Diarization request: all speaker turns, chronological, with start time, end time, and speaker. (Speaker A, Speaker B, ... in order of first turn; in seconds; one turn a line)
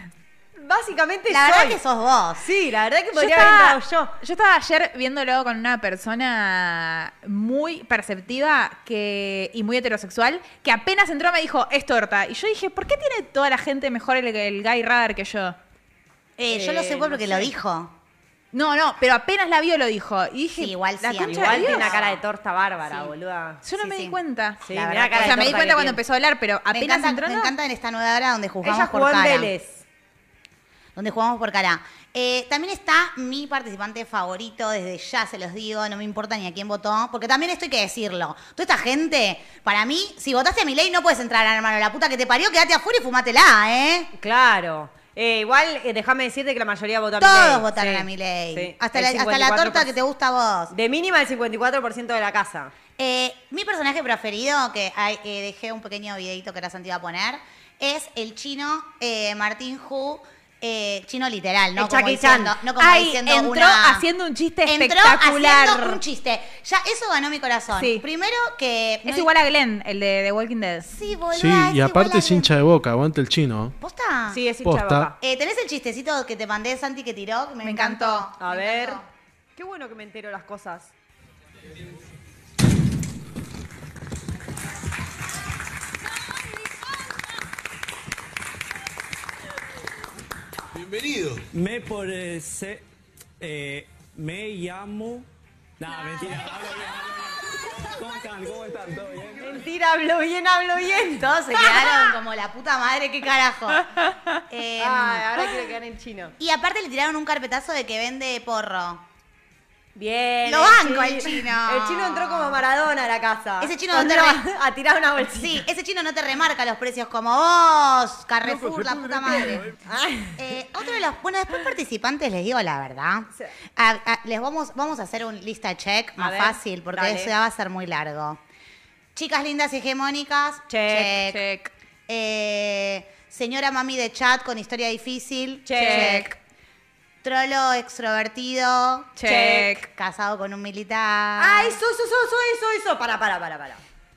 Speaker A: 0.6-1.8
Speaker B: 1.3-2.4
Speaker A: 2.4-4.1
Speaker C: 3.1-15.6
Speaker B: 16.4-17.9
Speaker A: 16.5-17.5
Speaker C: 18.5-21.9
Speaker B: 20.5-22.2
Speaker A: 21.2-23.6
Speaker C: 23.6-24.6
Speaker B: 23.8-26.0
Speaker A: 24.6-26.0
Speaker C: 25.2-27.5
Speaker B: 26.7-29.5
Speaker A: 28.6-29.8
Speaker B: 30.9-44.1
Speaker A: 44.2-49.9
Speaker B: 47.2-50.7
Speaker A: 50.7-52.7
Speaker B: 53.0-64.1
Speaker A: 61.8-62.6
Speaker C: 62.8-66.0
Speaker B: 64.6-69.3
Speaker C: 67.7-68.0
Speaker C: 69.0-70.9
Speaker B: 70.8-72.5
Speaker D: 71.3-73.7
Speaker B: 73.8-74.4
Speaker A: 74.3-75.1
Speaker D: 74.6-75.1
Speaker B: 75.2-79.1
Speaker C: 77.6-78.3
Speaker A: 78.4-79.0
Speaker A: 79.5-80.9
Speaker E: 91.5-92.8
Speaker E: 93.4-95.3
Speaker E: 95.8-99.6
Speaker A: 99.4-101.3
Speaker B: 101.0-103.9
Speaker B: 104.5-105.4
Speaker A: 104.8-106.3
Speaker B: 106.4-109.0
Speaker A: 109.9-115.7
Speaker B: 110.5-112.6
Speaker B: 113.6-114.4
Speaker B: 115.3-119.7
Speaker A: 119.3-120.6
Speaker B: 120.4-128.4
Speaker A: 126.2-127.3
Speaker B: 129.1-131.4
Speaker A: 130.7-131.2
Speaker C: 131.2-131.7
Speaker B: 132.1-136.4
Speaker A: 135.6-136.2
Speaker C: 135.8-136.3
Speaker B: 137.2-141.8
Speaker C: 139.2-139.8
Speaker A: 139.2-139.7
Speaker A: 141.4-143.8